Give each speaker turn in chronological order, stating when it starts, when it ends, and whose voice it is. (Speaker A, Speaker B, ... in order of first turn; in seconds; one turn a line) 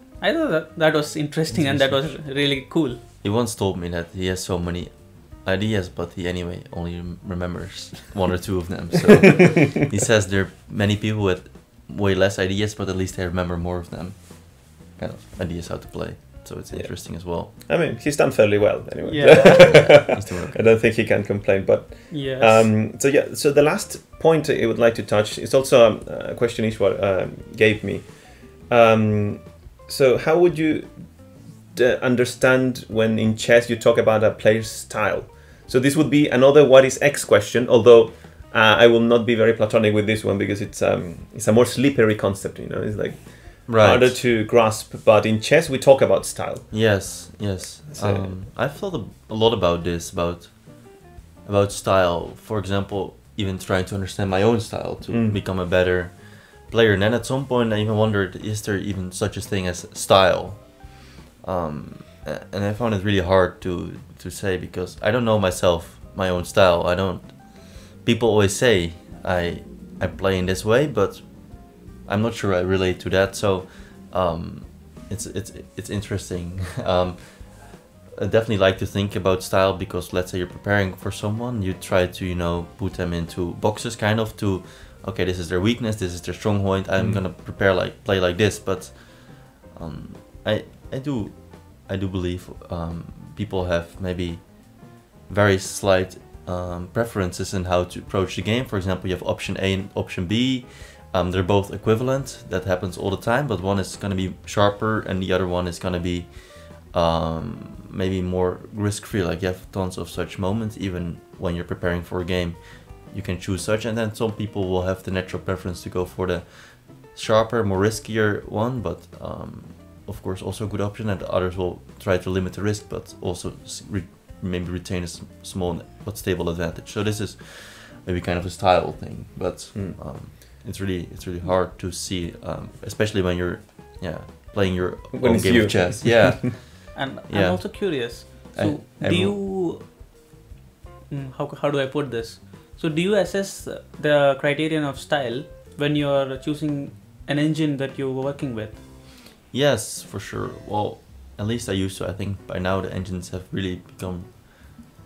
Speaker A: 0.2-3.0
Speaker B: 1.5-2.0
Speaker C: 3.2-17.5
Speaker B: 16.7-47.2
Speaker A: 19.1-20.0
Speaker C: 19.6-20.6
Speaker A: 22.1-22.7
Speaker C: 43.6-44.2
Speaker C: 46.7-139.4
Speaker B: 47.9-48.4
Speaker B: 55.1-55.4
Speaker B: 87.0-87.2
Speaker B: 129.7-130.0
Speaker B: 135.1-136.3
Speaker A: 136.9-139.9
Speaker A: 141.1-148.8
Speaker C: 149.5-154.9